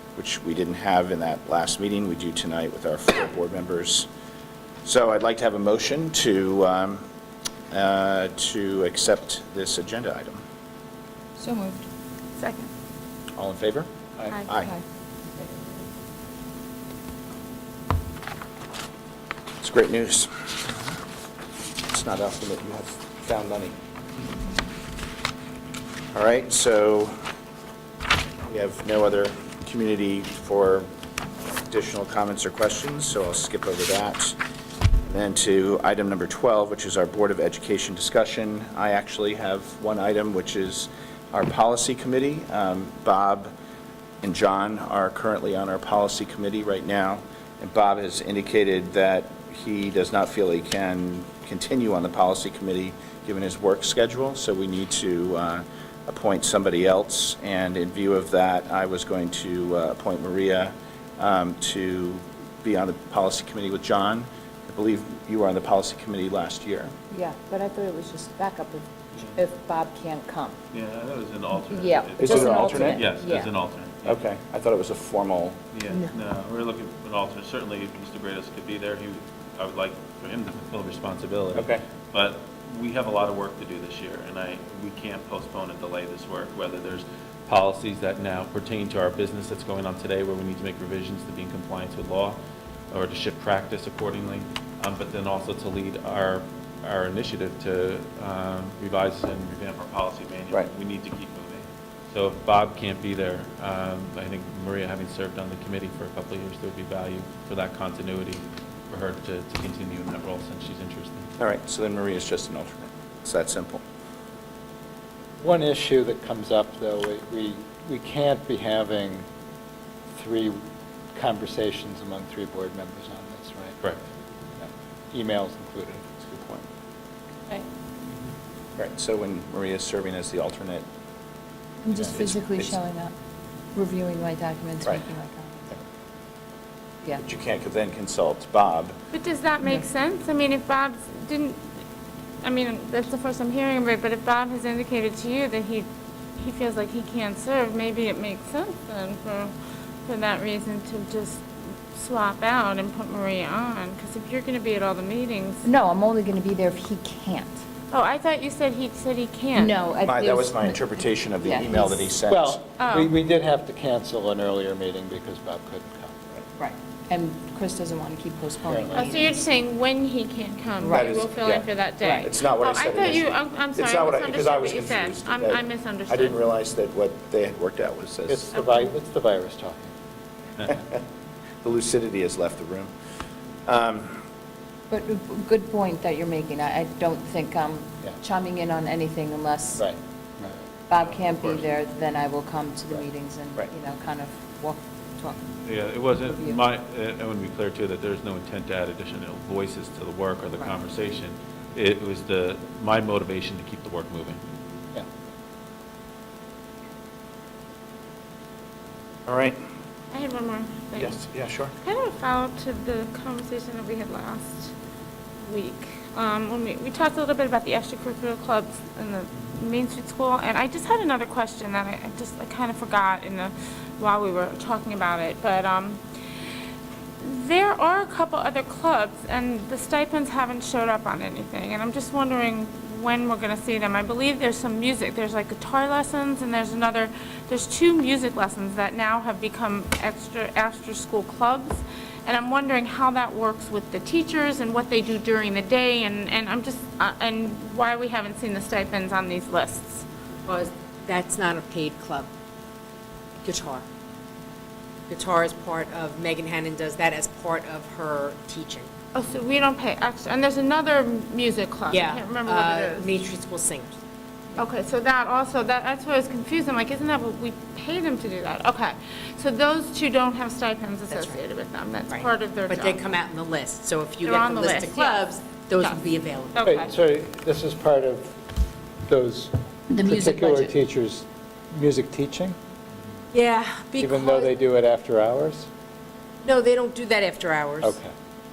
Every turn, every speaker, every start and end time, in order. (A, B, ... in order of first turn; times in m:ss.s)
0:00.2-0:04.1 A
0:04.8-0:07.0 A
0:07.7-0:10.4 A
0:11.4-0:11.8 B
0:12.4-0:12.7 C
0:13.4-0:13.9 A
0:14.4-0:14.7 A
0:14.6-0:14.8 B
0:19.6-0:20.7 A
0:21.9-0:23.7 A
0:26.1-0:27.1 A
0:28.4-0:30.9 A
0:31.6-0:34.4 A
0:35.0-0:43.5 A
0:44.2-1:06.9 A
1:07.1-1:10.6 B
1:10.7-1:14.2 D
1:11.7-1:13.5 B
1:12.2-1:13.0 A
1:14.0-1:15.6 A
1:15.7-1:32.4 D
1:21.5-1:21.8 A
1:32.9-1:51.3 D
1:51.4-1:53.8 A
1:55.4-1:59.2 E
2:00.1-2:00.6 E
2:01.1-2:03.8 E
2:04.6-2:06.1 E
2:06.2-2:06.6 A
2:08.8-2:10.8 A
2:11.8-2:13.1 B
2:12.0-2:12.8 A
2:13.7-2:15.6 B
2:17.2-2:18.9 A
2:19.1-2:21.6 C
2:22.4-2:25.9 C
2:26.4-2:29.5 C
2:30.0-2:35.7 C
2:35.6-2:37.6 B
2:37.9-2:39.8 C
2:39.5-2:40.8 B
2:40.0-2:42.6 A
2:41.4-2:42.1 B
2:42.3-2:46.2 E
2:42.8-2:43.1 C
2:46.6-2:49.5 B
2:48.7-2:49.1 E
2:48.9-2:56.4 C
2:50.8-2:51.3 B
2:50.9-2:51.6 A
2:52.0-2:52.3 B
2:52.2-2:58.5 A
2:58.3-2:59.9 E
2:58.6-2:58.8 C
3:00.6-3:01.0 A
3:01.6-3:02.9 A
3:03.7-3:04.2 A
3:04.9-3:09.8 B
3:09.8-3:10.6 E
3:10.9-3:15.4 B
3:15.6-3:24.4 D
3:16.2-3:16.6 B
3:29.3-3:29.6 A
3:30.1-3:31.2 C
3:31.0-3:31.7 A
3:31.8-3:34.7 C
3:35.5-3:46.0 C
3:47.2-4:10.0 C
4:10.5-4:12.3 F
4:13.4-4:13.8 F
4:15.1-4:18.9 F
4:19.1-4:23.2 C
4:21.9-4:24.0 F
4:24.6-4:33.0 C
4:31.1-4:31.4 F
4:32.1-4:36.9 F
4:34.2-4:35.2 C
4:36.5-4:36.9 C
4:36.6-4:38.4 E
4:39.0-4:42.6 E
4:39.9-4:40.7 B
4:43.3-4:44.5 F
4:44.0-4:45.7 E
4:46.4-4:48.0 F
4:47.8-4:48.1 E